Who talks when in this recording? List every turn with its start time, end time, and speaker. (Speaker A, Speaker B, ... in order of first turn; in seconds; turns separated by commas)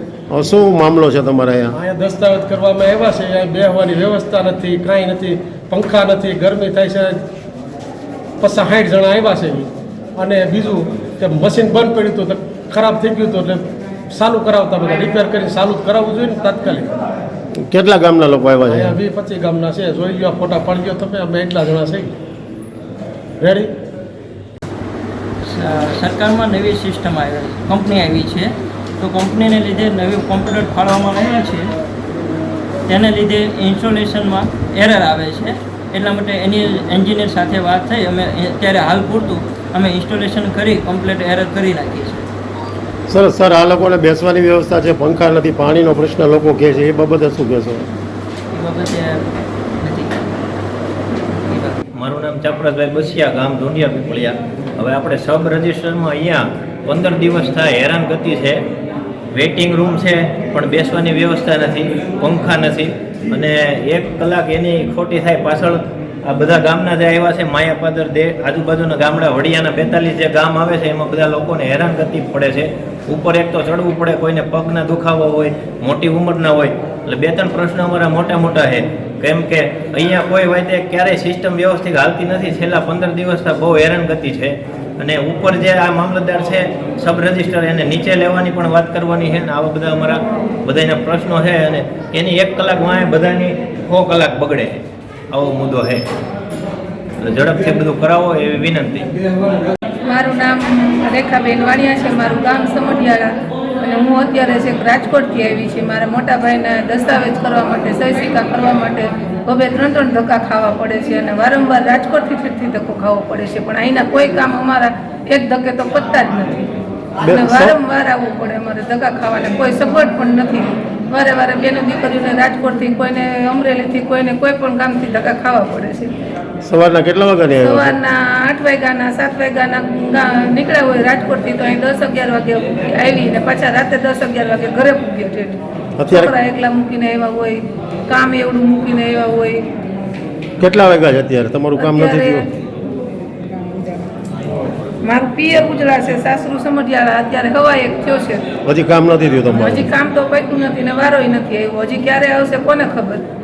Speaker A: 0.3-1.8, Speaker B: 1.7-7.2, Speaker B: 8.4-16.9, Speaker A: 17.6-19.0, Speaker B: 18.8-22.1, Speaker B: 23.4-23.7, Speaker C: 25.4-31.7, Speaker C: 32.9-42.3, Speaker A: 43.1-47.9, Speaker C: 48.5-50.1, Speaker C: 51.5-51.8, Speaker D: 52.0-58.6, Speaker D: 59.3-94.8, Speaker D: 95.3-96.0, Speaker D: 97.2-99.1, Speaker E: 100.1-116.7, Speaker A: 117.2-117.8, Speaker E: 117.2-126.1, Speaker A: 126.7-128.0, Speaker E: 127.6-139.7, Speaker A: 136.0-136.3, Speaker A: 140.6-142.4, Speaker E: 141.8-142.4, Speaker E: 145.0-148.5, Speaker A: 148.7-149.9, Speaker E: 149.5-153.2